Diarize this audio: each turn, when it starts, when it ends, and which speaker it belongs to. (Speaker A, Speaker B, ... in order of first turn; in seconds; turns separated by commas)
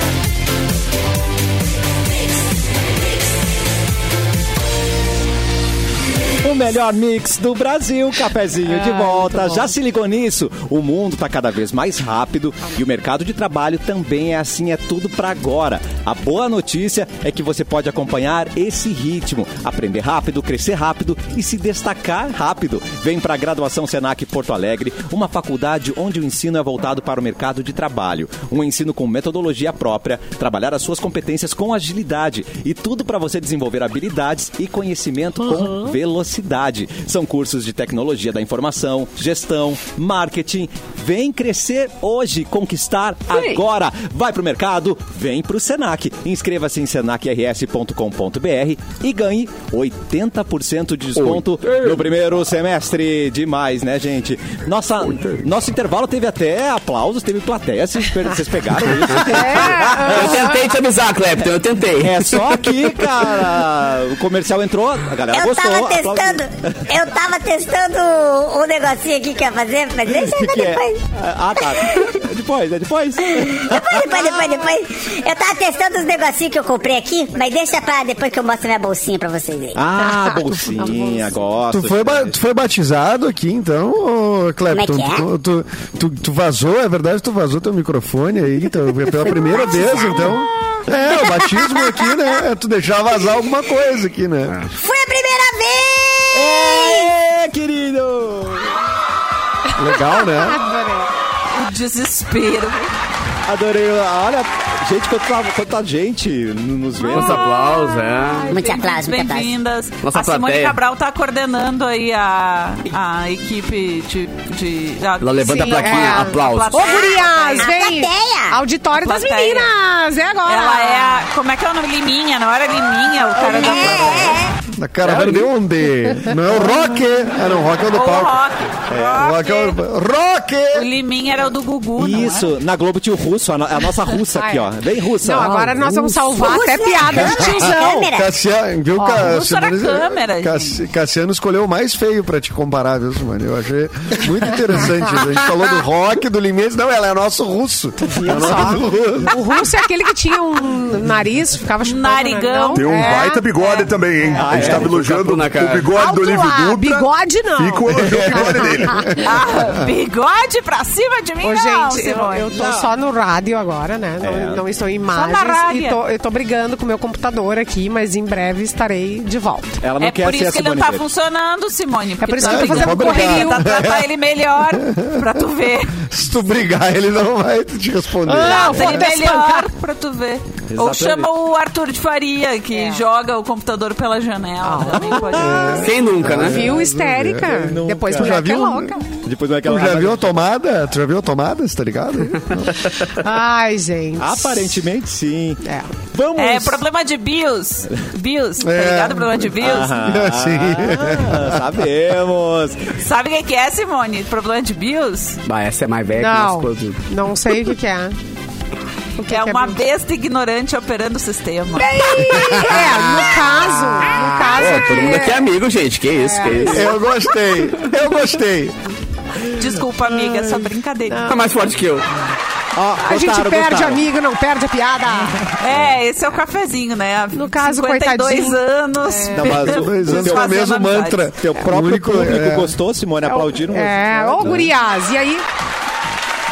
Speaker A: 6.4-60.5, Speaker B: 8.7-9.8, Speaker B: 35.6-35.9, Speaker C: 43.3-43.6, Speaker C: 51.2-52.0, Speaker C: 59.1-62.6, Speaker B: 59.2-60.6, Speaker A: 62.0-66.9, Speaker D: 65.3-71.0, Speaker A: 70.2-74.3, Speaker D: 71.6-72.2, Speaker D: 73.3-79.8, Speaker A: 79.8-82.3, Speaker B: 80.0-81.4, Speaker E: 81.7-94.6, Speaker D: 84.7-85.2, Speaker D: 89.2-90.5, Speaker D: 91.1-92.4, Speaker D: 94.8-97.1, Speaker A: 96.3-98.7, Speaker E: 99.8-100.6, Speaker B: 99.8-101.1, Speaker F: 101.5-102.9, Speaker A: 103.5-107.5, Speaker C: 107.1-108.5, Speaker B: 107.2-108.8, Speaker D: 108.5-109.5, Speaker F: 108.5-117.7, Speaker C: 110.0-110.8, Speaker C: 115.2-116.9, Speaker B: 115.6-121.2, Speaker D: 116.8-118.6, Speaker F: 119.0-119.7, Speaker F: 120.5-124.5, Speaker D: 123.4-124.5, Speaker E: 124.7-128.4, Speaker C: 125.0-125.5, Speaker F: 127.9-129.8, Speaker A: 128.9-129.2, Speaker E: 129.2-130.9, Speaker F: 130.7-132.5, Speaker A: 132.0-136.2, Speaker B: 134.2-138.1, Speaker D: 136.3-138.3, Speaker E: 138.1-149.4, Speaker B: 139.0-139.3, Speaker F: 139.1-140.8, Speaker B: 144.8-145.4, Speaker B: 148.1-153.6, Speaker F: 151.8-153.9, Speaker G: 152.7-159.1, Speaker A: 154.4-155.2, Speaker C: 154.5-155.9, Speaker B: 155.9-159.3, Speaker E: 157.9-159.9, Speaker F: 159.2-162.5, Speaker B: 161.4-169.8, Speaker A: 162.5-162.9, Speaker A: 164.2-164.7, Speaker F: 165.1-166.0, Speaker A: 169.8-171.1, Speaker F: 170.0-176.2, Speaker B: 172.2-173.7, Speaker E: 172.4-174.1, Speaker E: 174.7-175.4, Speaker E: 176.1-179.1, Speaker B: 178.3-179.7, Speaker F: 178.4-185.9, Speaker A: 180.7-181.3, Speaker B: 182.7-183.0, Speaker B: 184.6-189.0, Speaker E: 185.4-189.0, Speaker C: 185.8-186.6, Speaker A: 187.5-188.4, Speaker A: 189.2-190.4, Speaker E: 189.7-192.8, Speaker B: 193.0-194.8, Speaker A: 194.2-196.8, Speaker B: 195.6-195.9, Speaker F: 196.4-200.0, Speaker E: 198.6-201.6, Speaker A: 199.6-203.0, Speaker F: 203.0-205.4, Speaker C: 205.4-207.0, Speaker B: 206.1-208.2, Speaker B: 209.2-209.8, Speaker F: 209.2-212.6, Speaker B: 211.8-215.5, Speaker C: 214.4-217.0, Speaker B: 216.2-216.9, Speaker E: 216.7-218.8, Speaker F: 219.6-221.4, Speaker B: 221.1-221.4, Speaker C: 221.3-222.1, Speaker A: 222.8-224.0, Speaker B: 223.0-225.5, Speaker F: 225.6-231.3, Speaker B: 227.3-229.4, Speaker A: 229.4-230.6, Speaker E: 229.4-232.8, Speaker A: 231.4-234.7, Speaker B: 233.2-235.4